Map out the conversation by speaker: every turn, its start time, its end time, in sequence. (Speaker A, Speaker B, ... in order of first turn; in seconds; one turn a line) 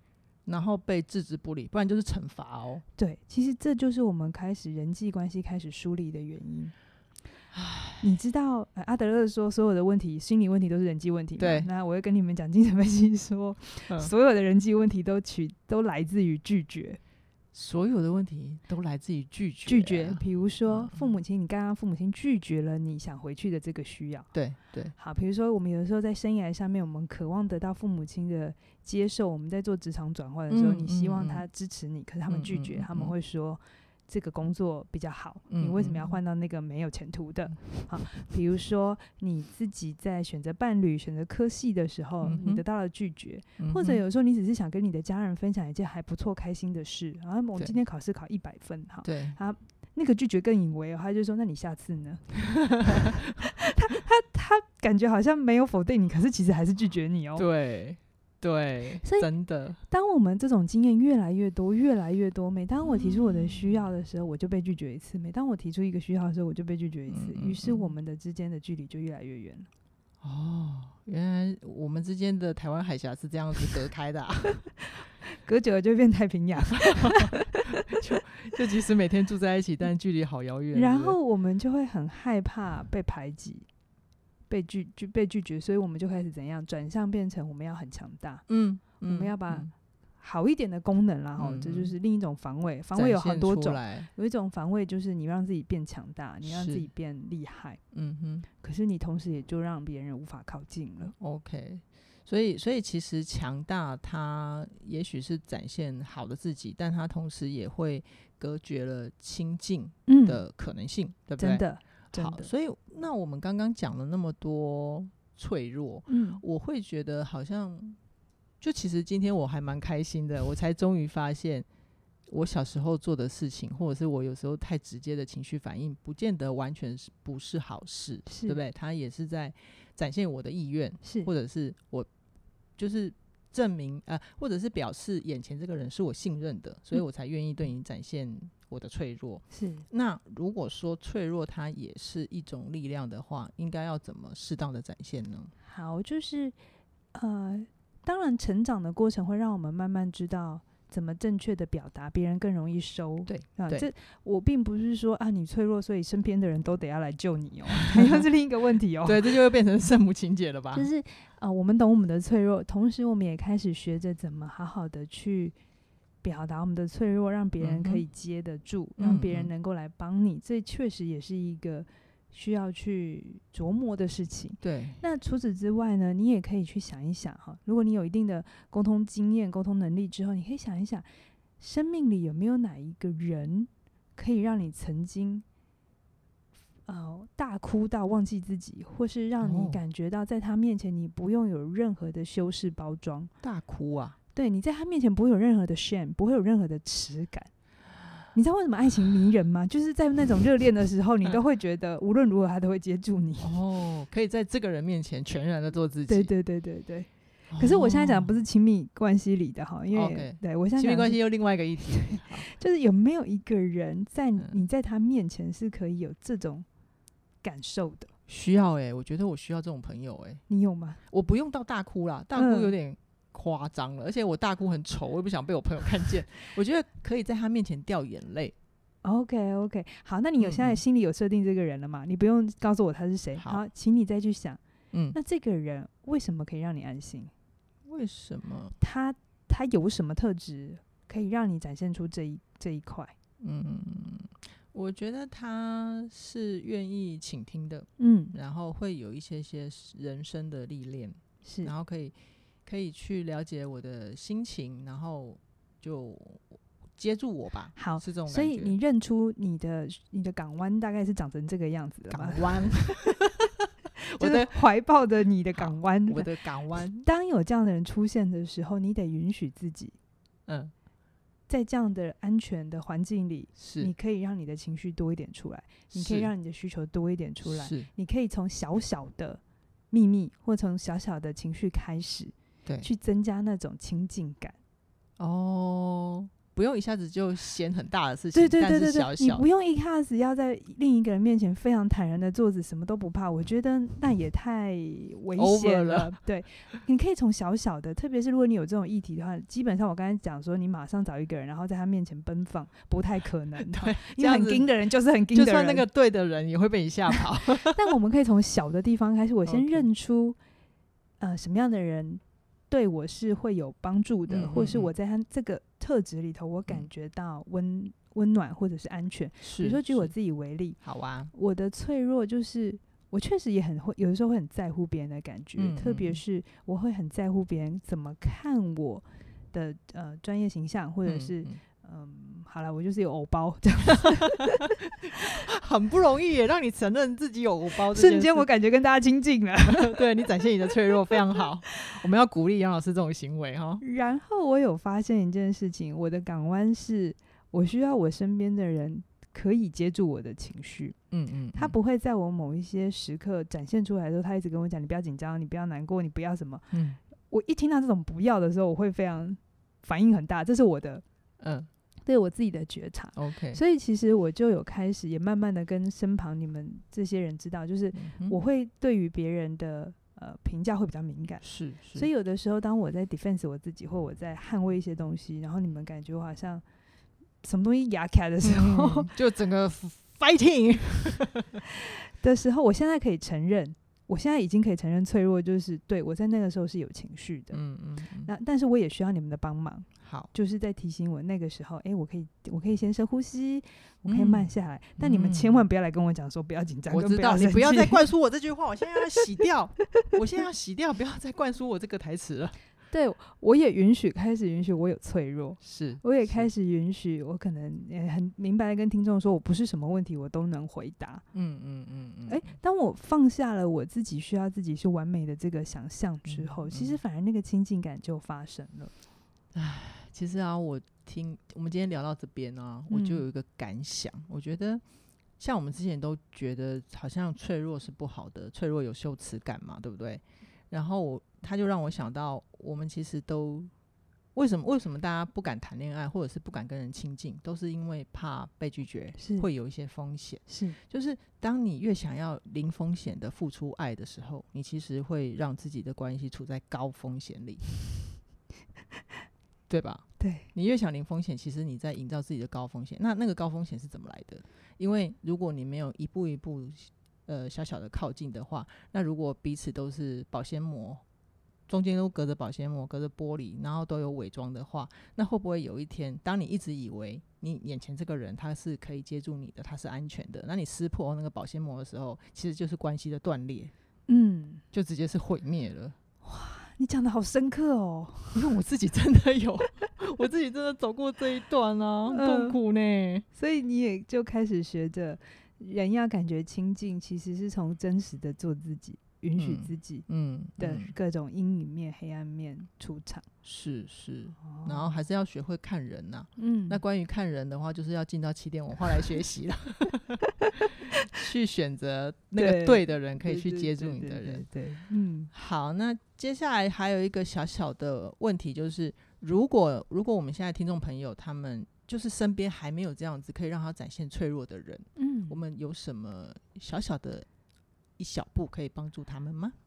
Speaker A: 0.5-2.8
Speaker B: 3.0-6.7
Speaker A: 7.5-8.1
Speaker B: 8.0-17.0
Speaker A: 11.4-11.7
Speaker A: 17.5-21.0
Speaker B: 19.6-24.3
Speaker A: 24.3-24.9
Speaker B: 24.9-57.5
Speaker A: 30.5-31.4
Speaker A: 32.3-33.1
Speaker A: 35.5-36.2
Speaker A: 42.2-42.6
Speaker A: 43.6-44.0
Speaker A: 49.0-49.4
Speaker A: 52.6-53.3
Speaker A: 57.4-59.8
Speaker B: 59.0-59.3
Speaker B: 59.8-69.7
Speaker A: 67.1-67.9
Speaker A: 70.2-74.7
Speaker B: 75.2-77.6
Speaker A: 76.8-81.2
Speaker B: 80.7-83.7
Speaker B: 84.5-88.4
Speaker A: 88.5-89.7
Speaker B: 89.0-97.8
Speaker A: 91.4-91.9
Speaker A: 92.9-94.1
Speaker A: 96.4-96.9
Speaker A: 97.9-98.5
Speaker B: 98.6-101.1
Speaker A: 101.2-118.0
Speaker B: 110.1-110.4
Speaker B: 111.4-112.5
Speaker B: 116.1-116.4
Speaker A: 118.6-121.7
Speaker A: 122.3-132.1
Speaker B: 128.2-128.6
Speaker B: 131.0-131.3
Speaker A: 132.8-145.5
Speaker B: 139.5-139.9
Speaker B: 145.6-146.6
Speaker B: 147.1-159.2
Speaker A: 153.3-153.9
Speaker A: 157.8-158.2
Speaker A: 159.0-160.9
Speaker B: 160.7-165.6
Speaker B: 166.2-181.1
Speaker A: 167.6-168.0
Speaker A: 169.0-169.5
Speaker A: 174.6-175.0
Speaker B: 181.6-185.4
Speaker B: 186.9-193.3
Speaker A: 189.4-189.8
Speaker A: 193.4-194.2
Speaker B: 194.3-197.5
Speaker B: 198.3-203.5
Speaker A: 203.4-206.3
Speaker B: 206.1-211.2
Speaker A: 207.5-208.4
Speaker A: 209.9-212.5
Speaker B: 211.9-216.7
Speaker B: 217.4-218.1
Speaker A: 218.3-220.4
Speaker B: 220.5-221.0
Speaker A: 221.1-228.5
Speaker B: 222.3-222.7
Speaker B: 229.0-234.6
Speaker A: 230.4-230.8
Speaker A: 234.9-235.2
Speaker B: 235.1-237.3
Speaker A: 237.9-238.8
Speaker B: 238.8-243.1
Speaker A: 243.4-252.1
Speaker B: 248.0-248.3
Speaker B: 251.4-251.7
Speaker A: 252.7-258.7
Speaker B: 257.8-263.1
Speaker A: 262.1-263.6
Speaker A: 264.1-264.6
Speaker B: 264.2-269.9
Speaker A: 265.5-267.0
Speaker A: 270.5-270.7
Speaker B: 271.5-284.6
Speaker A: 273.6-273.9
Speaker A: 275.9-276.3
Speaker A: 277.4-277.9
Speaker A: 285.2-289.4
Speaker B: 288.3-305.9
Speaker A: 295.4-296.2
Speaker A: 303.6-304.7
Speaker A: 305.3-307.8
Speaker B: 307.1-310.4
Speaker A: 309.4-309.9
Speaker B: 311.2-320.8
Speaker A: 314.3-314.9
Speaker A: 319.4-320.1
Speaker A: 320.8-321.3
Speaker B: 321.3-334.7
Speaker A: 325.6-326.2
Speaker A: 331.1-331.6
Speaker A: 333.9-338.5
Speaker B: 337.9-340.1
Speaker A: 339.7-343.8
Speaker B: 343.8-351.0
Speaker A: 351.1-351.8
Speaker B: 351.5-356.7
Speaker A: 356.7-357.0
Speaker B: 357.3-361.0
Speaker A: 361.4-361.7
Speaker B: 362.0-371.4
Speaker A: 363.1-363.6
Speaker A: 367.9-368.4
Speaker A: 371.4-372.1
Speaker B: 371.9-376.6
Speaker B: 377.4-379.1
Speaker A: 378.4-381.6
Speaker B: 382.1-387.6
Speaker A: 387.5-388.3
Speaker B: 388.2-398.0
Speaker A: 390.0-390.3
Speaker A: 394.1-395.6
Speaker A: 396.9-402.6
Speaker B: 402.9-411.2
Speaker A: 405.6-406.5
Speaker A: 411.3-412.5
Speaker B: 412.3-418.9
Speaker A: 416.2-417.0
Speaker A: 419.5-424.8
Speaker B: 422.9-423.2
Speaker A: 425.4-433.7
Speaker A: 434.3-447.6
Speaker B: 439.2-439.5
Speaker B: 440.5-440.8
Speaker A: 449.7-461.0
Speaker B: 450.2-450.5
Speaker A: 461.7-473.7
Speaker B: 474.1-474.6
Speaker A: 474.7-476.0
Speaker B: 476.2-478.5
Speaker A: 478.3-483.2
Speaker B: 482.1-482.6
Speaker B: 483.3-490.1
Speaker A: 489.4-490.9
Speaker B: 490.6-493.2
Speaker A: 493.4-500.2
Speaker B: 494.4-494.8
Speaker B: 496.4-496.8
Speaker A: 500.8-504.4
Speaker B: 502.4-505.3
Speaker A: 505.3-517.3
Speaker B: 515.0-515.4
Speaker A: 518.0-519.5